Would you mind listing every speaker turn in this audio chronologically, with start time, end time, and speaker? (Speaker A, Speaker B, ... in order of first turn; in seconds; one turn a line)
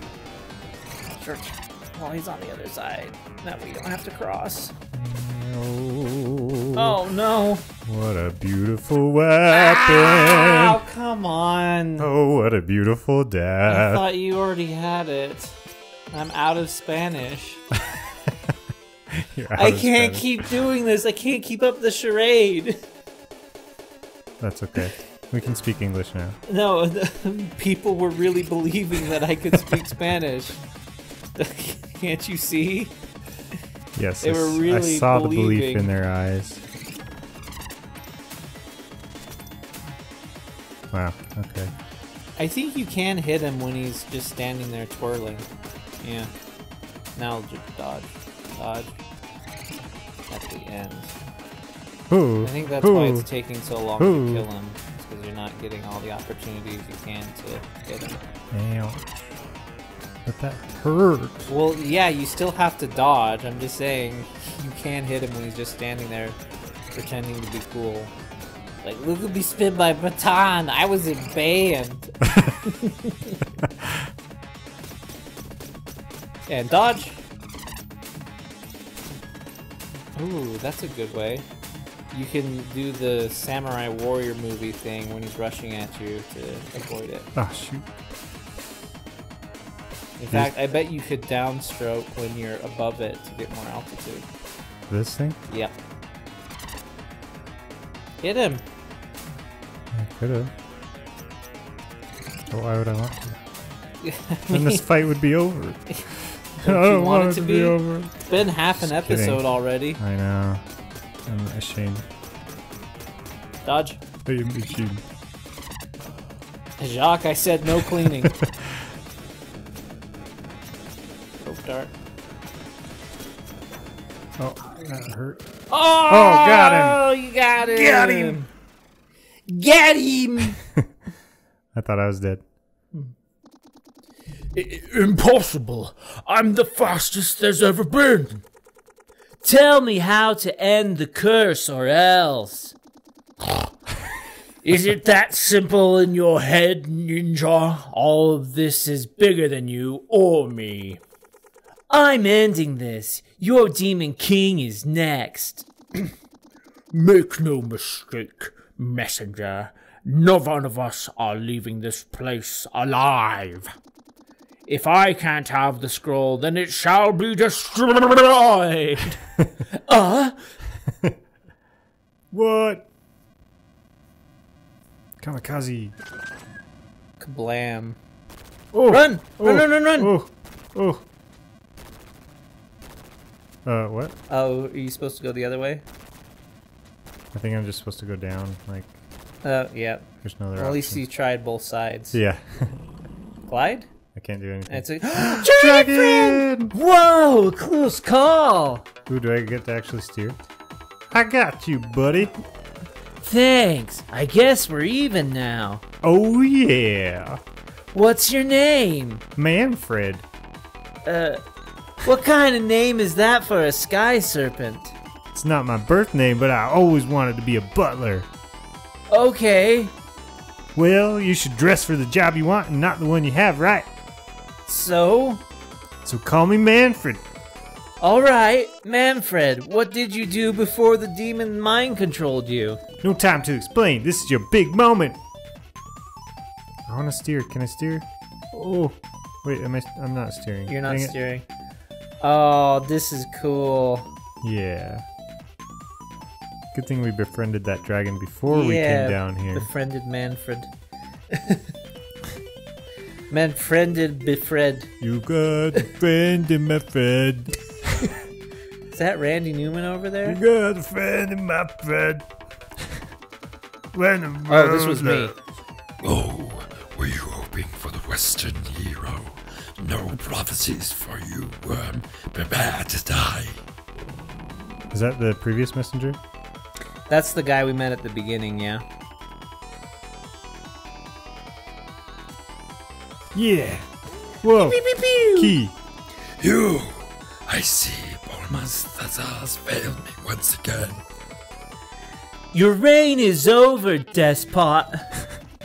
Speaker A: 1.1-4.7
Speaker B: 4.9-7.0
Speaker A: 6.7-7.6
Speaker B: 7.8-10.8
Speaker A: 9.5-12.1
Speaker B: 12.0-14.0
Speaker A: 13.7-15.6
Speaker A: 16.1-17.6
Speaker B: 19.1-20.3
Speaker A: 19.5-22.8
Speaker B: 24.4-26.4
Speaker A: 26.5-30.6
Speaker A: 31.4-32.9
Speaker B: 33.9-36.6
Speaker A: 34.2-35.9
Speaker B: 40.9-41.7
Speaker A: 42.4-45.5
Speaker A: 46.0-46.3
Speaker A: 47.1-49.0
Speaker A: 50.3-51.1
Speaker B: 52.1-53.3
Speaker A: 52.4-58.2
Speaker B: 54.0-54.5
Speaker B: 58.5-59.3
Speaker B: 60.2-61.5
Speaker A: 61.5-66.4
Speaker A: 66.9-68.1
Speaker A: 68.8-73.4
Speaker A: 76.5-77.2
Speaker A: 80.2-81.4
Speaker A: 82.1-87.3
Speaker B: 87.3-87.8
Speaker A: 90.2-94.3
Speaker B: 94.9-95.4
Speaker A: 98.2-98.6
Speaker B: 99.9-100.5
Speaker B: 102.5-103.4
Speaker A: 104.0-104.8
Speaker B: 104.5-109.4
Speaker A: 106.6-110.0
Speaker B: 110.0-110.6
Speaker B: 111.2-112.0
Speaker A: 113.6-114.0
Speaker B: 114.2-115.0
Speaker A: 116.8-118.3
Speaker B: 118.3-118.8
Speaker A: 121.4-121.9
Speaker B: 124.4-125.4
Speaker A: 125.7-128.5
Speaker B: 126.1-127.0
Speaker B: 127.6-128.4
Speaker A: 129.5-130.6
Speaker B: 131.7-132.4
Speaker A: 134.5-138.4
Speaker A: 139.4-142.7
Speaker A: 144.6-151.0
Speaker A: 151.9-156.1
Speaker A: 156.9-163.7
Speaker A: 164.7-170.4
Speaker B: 172.3-172.9
Speaker B: 175.2-175.9
Speaker A: 177.2-178.0
Speaker B: 178.7-181.0
Speaker A: 178.9-180.1
Speaker B: 183.6-184.2
Speaker A: 184.3-185.8
Speaker B: 187.3-189.0
Speaker A: 189.4-192.2
Speaker B: 190.2-191.0
Speaker B: 192.1-192.8
Speaker A: 193.5-193.9
Speaker B: 194.1-196.7
Speaker A: 194.7-198.8
Speaker B: 199.1-200.4
Speaker B: 201.1-202.3
Speaker A: 203.2-205.8
Speaker B: 206.0-207.4
Speaker A: 207.9-209.2
Speaker B: 209.3-210.2
Speaker A: 211.0-211.4
Speaker A: 212.0-214.9
Speaker B: 215.3-218.3
Speaker A: 219.1-219.9
Speaker B: 220.7-223.9
Speaker A: 224.7-225.4
Speaker B: 226.0-227.2
Speaker A: 228.0-232.8
Speaker B: 233.0-235.2
Speaker B: 236.9-241.2
Speaker A: 240.7-241.4
Speaker A: 242.2-244.1
Speaker B: 244.4-245.1
Speaker B: 246.7-249.7
Speaker A: 248.5-250.7
Speaker A: 251.3-251.6
Speaker A: 253.3-254.9
Speaker B: 255.0-258.1
Speaker A: 258.9-260.4
Speaker B: 260.2-262.2
Speaker B: 263.9-265.3
Speaker A: 264.5-265.3
Speaker C: 266.0-273.6
Speaker B: 274.9-276.2
Speaker A: 277.1-278.8
Speaker B: 283.3-285.7
Speaker A: 284.6-285.5
Speaker C: 286.4-291.0
Speaker A: 292.5-295.1